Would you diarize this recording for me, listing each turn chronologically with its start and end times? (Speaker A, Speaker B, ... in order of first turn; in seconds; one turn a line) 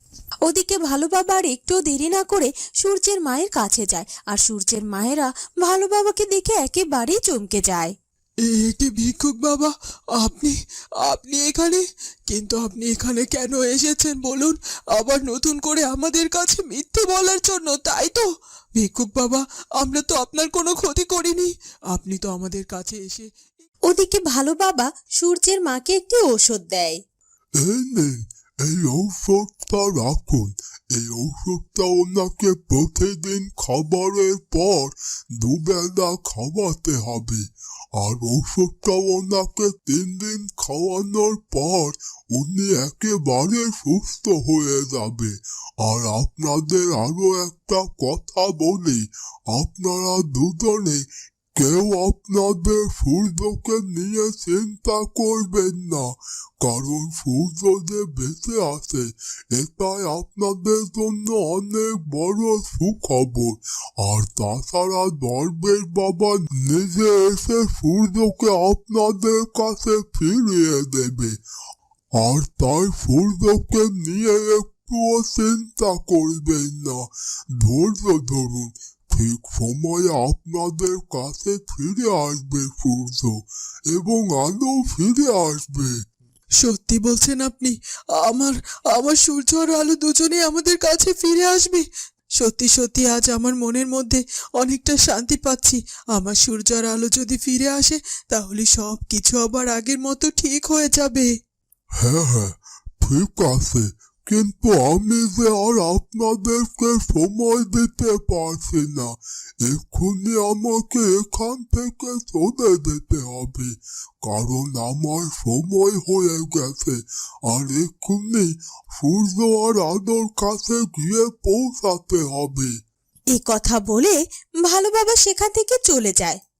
Speaker A: 0.5-8.0
Speaker B: 8.4-23.3
Speaker A: 23.9-27.0
Speaker C: 27.6-71.4
Speaker C: 72.2-77.1
Speaker C: 77.6-86.0
Speaker B: 86.6-91.8
Speaker B: 92.4-101.3
Speaker C: 102.0-122.8
Speaker A: 123.3-126.4